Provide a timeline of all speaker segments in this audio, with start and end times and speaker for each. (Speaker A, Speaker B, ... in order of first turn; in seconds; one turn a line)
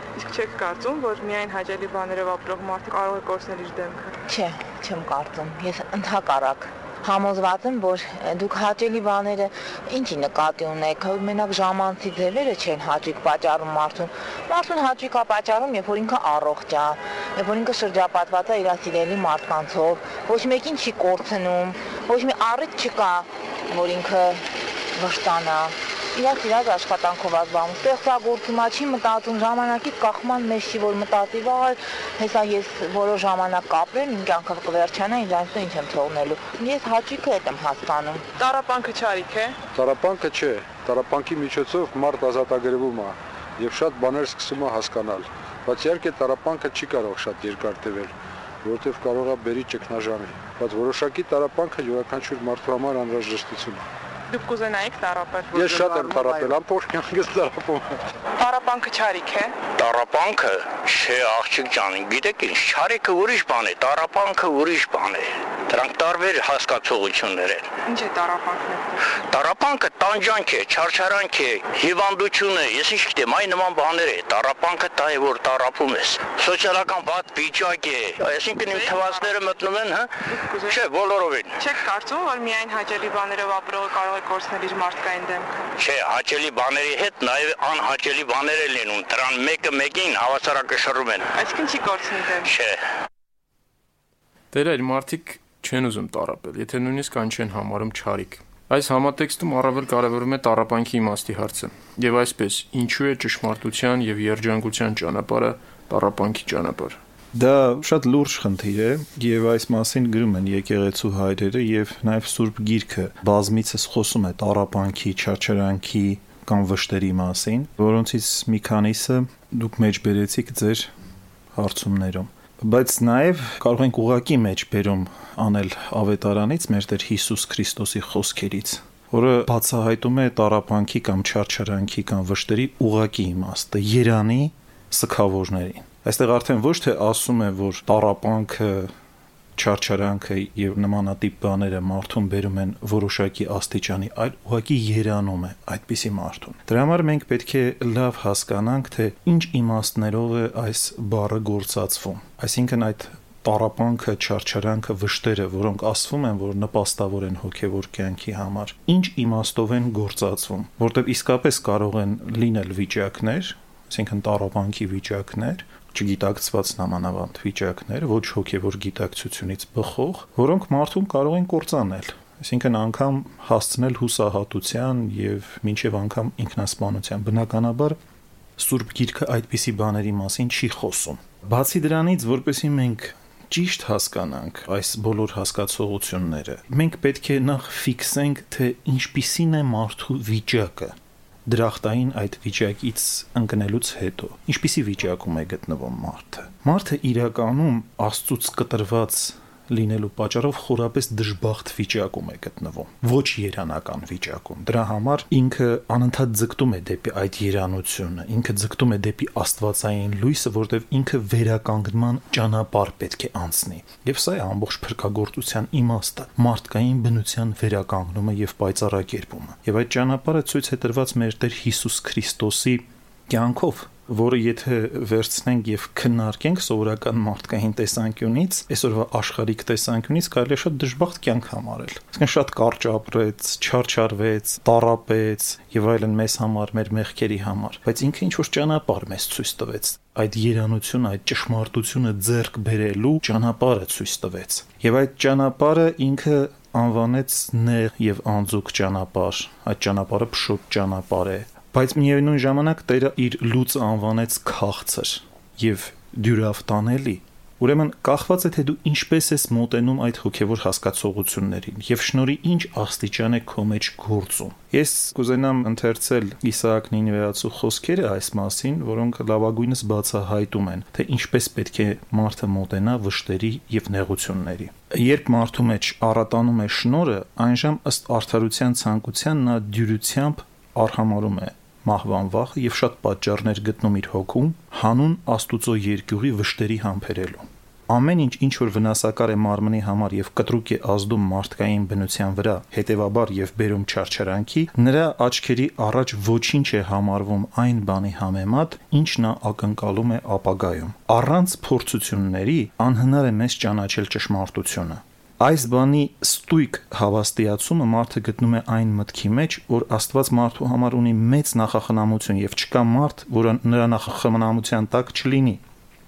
Speaker A: 0.1-4.1
Speaker B: 4.3-38.2
Speaker A: 38.4-39.6
Speaker C: 39.7-53.9
Speaker A: 54.3-56.5
Speaker C: 55.5-57.9
Speaker A: 58.4-59.5
Speaker D: 59.8-67.7
Speaker A: 67.9-69.1
Speaker D: 69.3-80.1
Speaker A: 78.6-79.3
Speaker A: 80.3-80.8
Speaker D: 80.7-81.5
Speaker A: 81.6-85.5
Speaker D: 85.8-91.2
Speaker A: 91.3-92.5
Speaker D: 92.5-92.8
Speaker E: 94.5-107.0
Speaker F: 107.3-120.9
Speaker F: 121.5-138.9
Speaker F: 139.6-178.0
Speaker F: 178.6-315.6